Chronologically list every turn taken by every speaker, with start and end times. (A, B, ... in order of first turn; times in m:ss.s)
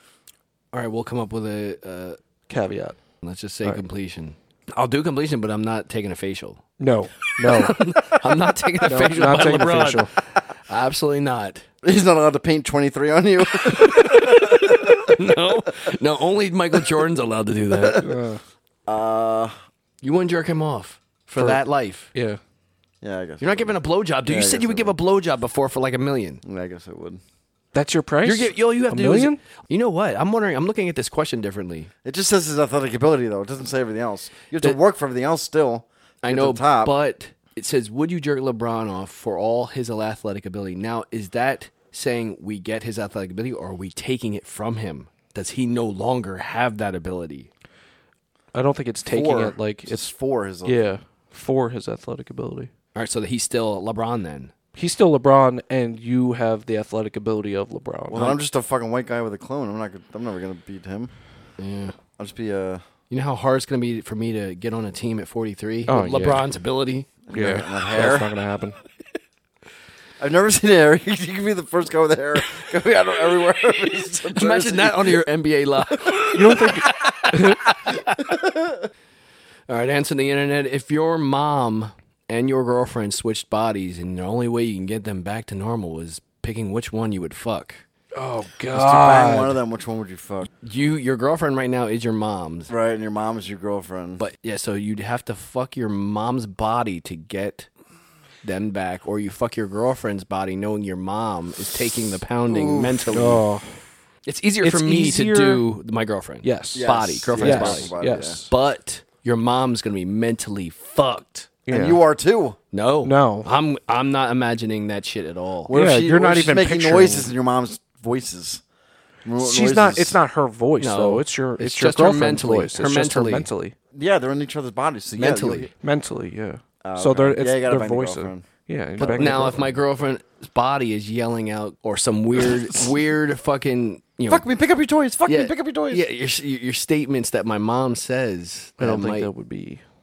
0:00.7-0:02.2 A
0:02.5-0:03.0 B
0:03.2-0:06.6 A
0:06.8-0:08.0 B
0:07.4-0:11.6 A
0:08.8-0:10.1 B
0:11.8-0:15.3 C
0:13.6-0:18.1 A
0:17.7-0:18.4 B
0:18.9-0:19.5 C
0:20.0-0:22.1 A
0:21.4-0:21.6 B
0:22.1-0:22.4 B
0:23.0-0:25.0 C
0:23.4-0:26.4 A
0:26.4-0:27.2 C
0:27.7-0:29.4 B
0:28.2-0:31.9 A
0:32.0-0:36.9 C
0:36.2-0:47.5 A
0:48.5-0:50.1 B
0:49.0-0:50.8 C
0:50.6-0:52.7 B
0:52.9-0:54.5 A
0:54.8-0:58.4 B
0:58.1-1:01.1 C
1:01.6-1:01.9 A
1:02.2-1:02.8 C
1:03.1-1:07.1 A
1:05.9-1:06.4 B
1:07.3-1:08.3 C
1:07.3-1:08.8 B
1:10.2-1:15.2 C
1:14.3-1:18.3 A
1:16.3-1:17.7 B
1:19.7-1:27.8 A
1:28.2-1:29.6 B
1:28.7-1:30.5 C
1:30.6-1:32.7 A
1:32.7-1:34.2 C
1:34.2-1:37.7 A
1:38.4-1:43.4 A
1:42.5-1:43.3 C
1:43.1-1:43.8 B
1:44.2-1:47.9 A
1:44.6-1:45.6 B
1:46.4-1:48.5 B
1:46.7-1:48.4 C
1:48.5-1:51.5 A
1:51.7-1:52.0 B
1:51.7-1:52.6 C
1:52.7-1:55.7 A
1:53.0-1:53.5 B
1:55.7-1:58.6 C
1:55.7-1:57.3 B
1:59.2-2:00.2 C
1:59.4-2:03.7 B
2:00.8-2:03.5 A
2:03.9-2:05.7 C
2:05.2-2:05.7 A
2:05.8-2:09.6 B
2:06.8-2:08.4 C
2:09.0-2:09.6 C
2:09.0-2:14.5 A
2:14.3-2:16.0 C
2:15.3-2:19.3 A
2:18.8-2:19.8 B